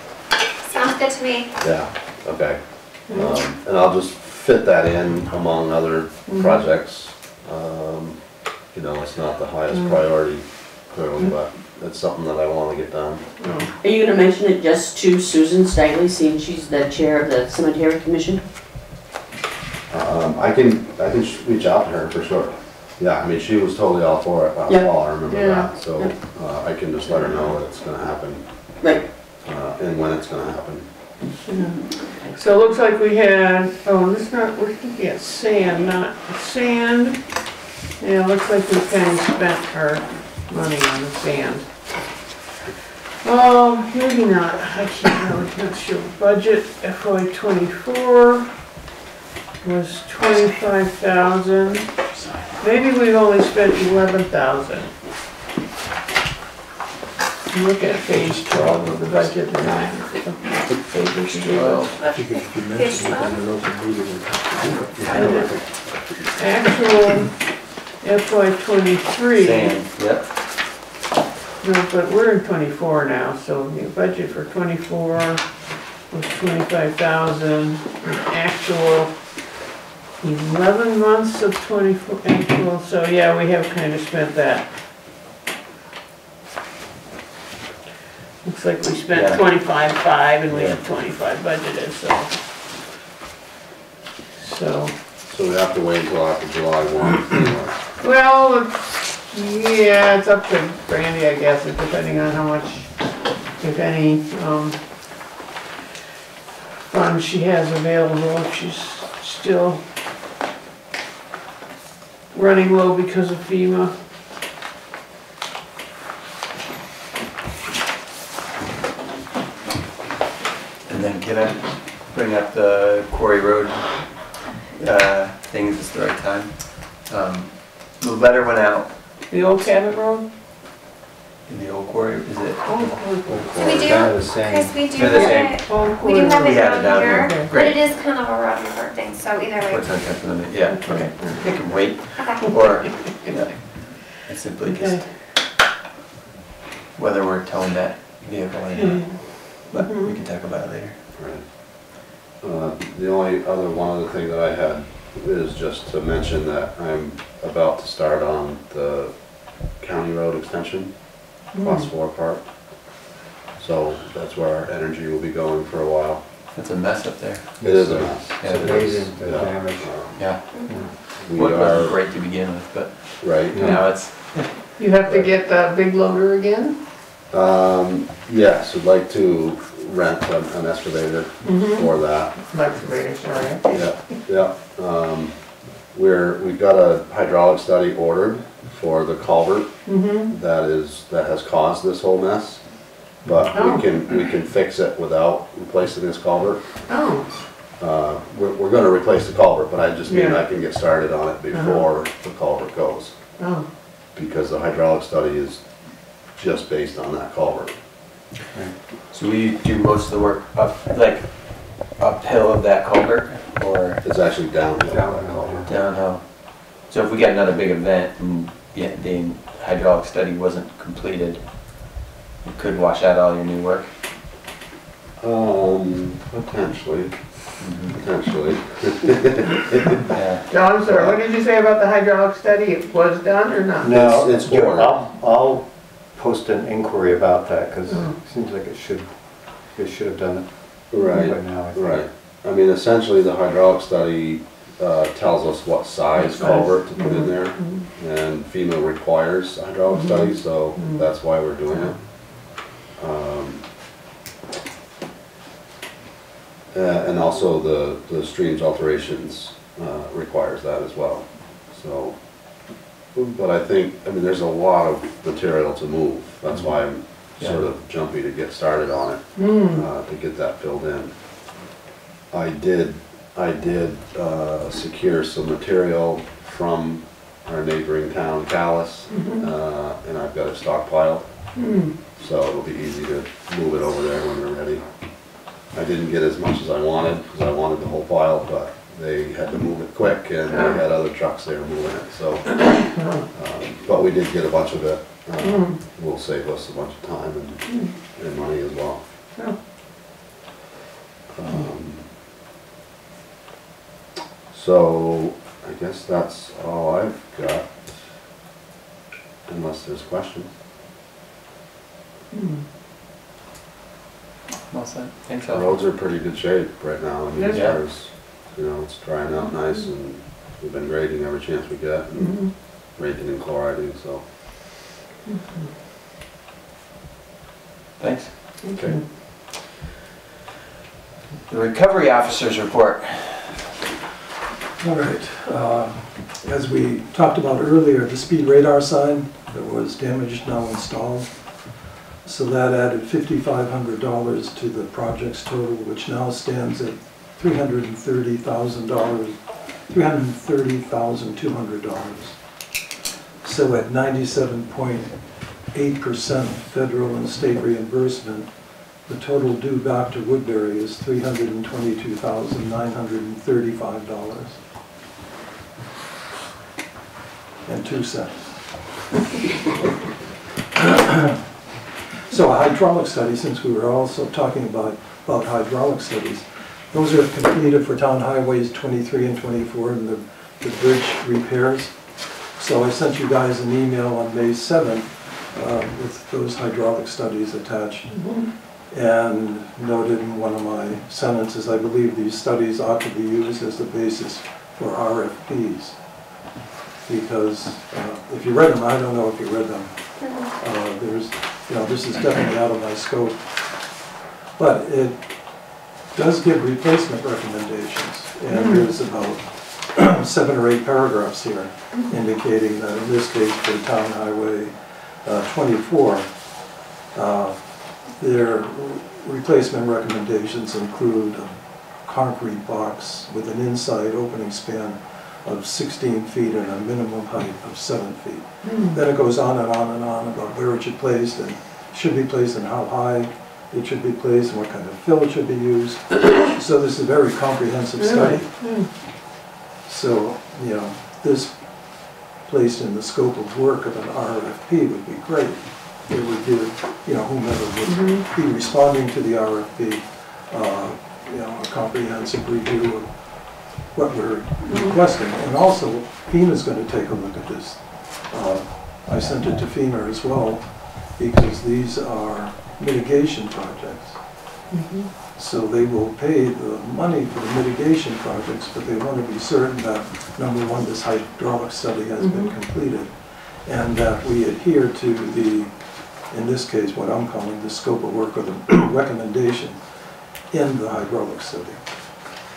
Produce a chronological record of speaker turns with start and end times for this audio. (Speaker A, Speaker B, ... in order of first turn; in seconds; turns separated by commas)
Speaker A: 0.7-1.5, Speaker B: 1.6-8.2, Speaker C: 3.1-3.4, Speaker C: 6.3-6.6, Speaker B: 8.7-13.3, Speaker C: 9.7-10.0, Speaker C: 13.4-13.7, Speaker D: 13.8-18.4, Speaker B: 19.9-28.7, Speaker C: 25.3-25.7, Speaker B: 29.4-30.9, Speaker C: 31.5-37.2, Speaker C: 38.0-41.6, Speaker C: 43.2-48.5, Speaker C: 49.6-51.9, Speaker E: 52.1-52.4, Speaker C: 52.6-54.9, Speaker C: 57.5-61.8, Speaker F: 58.1-60.0, Speaker E: 61.5-61.9, Speaker F: 61.5-65.5, Speaker A: 61.9-63.4, Speaker B: 65.0-65.7, Speaker C: 65.1-65.5, Speaker C: 66.3-67.4, Speaker C: 68.0-69.7, Speaker E: 69.4-70.3, Speaker C: 71.6-75.5, Speaker C: 76.1-79.2, Speaker C: 80.2-84.7, Speaker C: 88.4-92.3, Speaker E: 89.1-89.4, Speaker E: 90.5-90.8, Speaker C: 94.4-94.9, Speaker B: 95.3-97.7, Speaker C: 98.0-103.0, Speaker C: 103.6-104.8, Speaker C: 106.9-109.8, Speaker C: 112.3-113.9, Speaker E: 120.8-129.3, Speaker C: 129.3-130.3, Speaker E: 131.5-132.9, Speaker C: 132.6-133.9, Speaker G: 133.2-135.2, Speaker A: 133.5-139.9, Speaker E: 134.9-137.8, Speaker C: 135.1-137.5, Speaker E: 139.7-145.1, Speaker C: 140.8-141.4, Speaker A: 142.2-142.5, Speaker C: 144.7-145.0, Speaker E: 146.9-151.0, Speaker C: 148.8-150.1, Speaker B: 151.2-162.9, Speaker C: 161.5-161.9, Speaker B: 163.6-166.2, Speaker E: 166.5-167.6, Speaker G: 167.6-170.9, Speaker B: 167.6-170.3, Speaker E: 168.4-168.9, Speaker E: 170.2-174.6, Speaker B: 171.2-172.0, Speaker B: 173.2-173.7, Speaker G: 173.5-173.8, Speaker C: 174.7-176.8, Speaker B: 175.1-175.3, Speaker B: 177.3-182.3, Speaker C: 181.4-183.6, Speaker B: 183.7-185.3, Speaker B: 185.9-189.8, Speaker C: 189.8-190.3, Speaker B: 190.3-192.7, Speaker B: 193.2-196.6, Speaker C: 193.5-193.8, Speaker C: 196.9-197.3, Speaker B: 197.8-203.1, Speaker C: 200.1-200.4, Speaker C: 201.5-201.8, Speaker C: 203.4-203.7, Speaker B: 204.1-205.7, Speaker B: 206.2-207.8, Speaker E: 209.1-214.0, Speaker B: 214.0-215.6, Speaker G: 214.9-215.7, Speaker E: 215.7-221.9, Speaker E: 222.4-223.9, Speaker B: 225.2-230.1, Speaker E: 227.6-228.0, Speaker E: 230.1-230.5, Speaker C: 230.5-233.9, Speaker B: 230.8-231.2, Speaker G: 233.8-242.0, Speaker B: 233.9-235.0, Speaker C: 237.9-238.1, Speaker B: 240.9-253.7, Speaker C: 241.0-241.3, Speaker C: 246.2-247.8, Speaker C: 249.9-251.0, Speaker B: 256.7-271.1, Speaker C: 269.4-269.8, Speaker B: 272.3-281.4, Speaker C: 279.1-279.4, Speaker C: 281.6-281.9, Speaker B: 282.2-299.1, Speaker C: 290.5-290.8, Speaker C: 292.9-293.2, Speaker C: 295.4-295.8, Speaker B: 301.3-302.0, Speaker B: 304.5-307.7, Speaker B: 309.5-310.5, Speaker C: 312.3-312.6, Speaker E: 314.7-315.8, Speaker B: 315.5-324.2, Speaker C: 317.4-317.6, Speaker E: 317.5-317.8, Speaker C: 322.2-322.5, Speaker C: 325.3-325.7, Speaker E: 328.0-328.3, Speaker C: 328.6-329.0, Speaker B: 328.7-329.0, Speaker E: 331.5-333.6, Speaker F: 334.8-352.6, Speaker F: 353.4-364.6, Speaker F: 367.6-369.0, Speaker F: 370.7-371.5, Speaker F: 372.3-396.0, Speaker C: 388.1-388.5, Speaker F: 397.1-403.8, Speaker A: 400.2-400.5, Speaker F: 404.6-416.5, Speaker C: 408.5-408.9, Speaker F: 417.1-438.9, Speaker C: 428.6-429.0, Speaker C: 438.0-438.9, Speaker F: 439.8-464.4, Speaker C: 447.9-448.2, Speaker C: 454.6-455.0, Speaker C: 464.7-465.1, Speaker F: 465.3-482.4, Speaker C: 472.2-472.5